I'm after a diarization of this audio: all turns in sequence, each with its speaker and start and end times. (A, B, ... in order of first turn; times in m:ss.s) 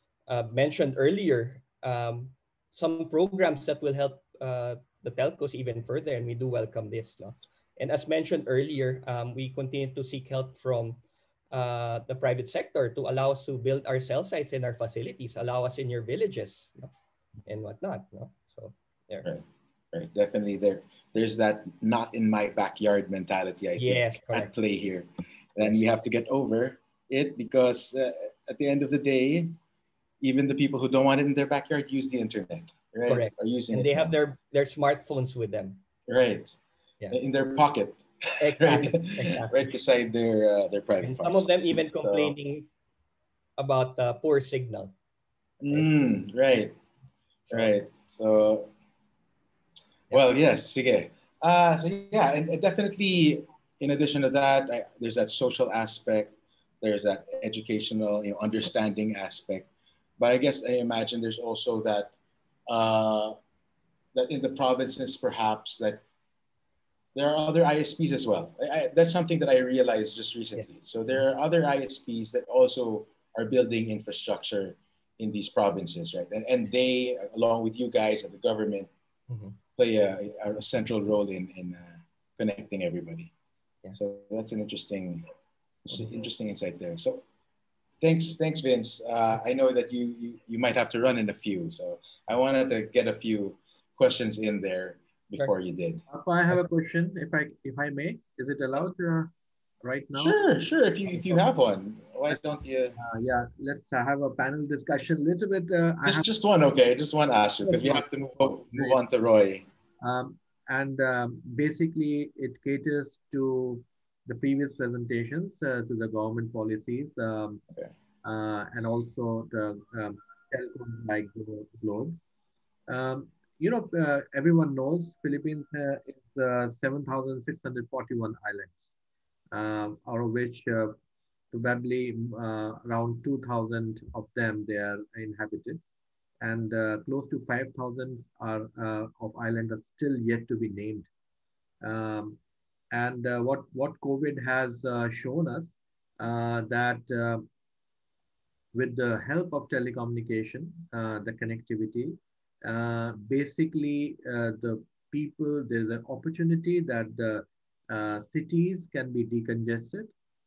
0:00.3-0:16.9 A
0:17.5-0:19.3 A
0:19.2-0:29.6 B
0:23.8-0:24.5 A
0:30.2-0:34.2 B
0:33.1-0:35.8 A
0:36.1-0:36.6 B
0:37.1-0:42.4 B
0:38.4-0:39.8 A
0:41.0-0:42.7 A
0:43.6-0:44.9 A
0:45.6-0:46.8 B
0:47.5-0:48.7 B
0:50.1-1:02.1 B
1:02.7-1:03.4 B
1:04.1-1:06.0 B
1:07.1-1:18.9 B
1:19.8-1:23.3 B
1:23.9-1:25.3 B
1:25.9-1:27.2 B
1:28.0-1:36.0 B
1:36.1-1:40.4 C
1:40.1-1:43.0 B
1:41.1-1:41.4 C
1:43.0-1:46.3 C
1:46.0-1:49.7 B
1:47.6-1:49.0 C
1:50.0-1:57.6 C
1:58.2-2:02.2 C
2:02.9-2:08.9 C
2:09.5-2:11.0 C
2:11.5-2:15.8 C
2:16.4-2:21.1 C
2:21.8-2:22.4 C
2:22.9-2:27.5 C
2:28.7-2:40.1 C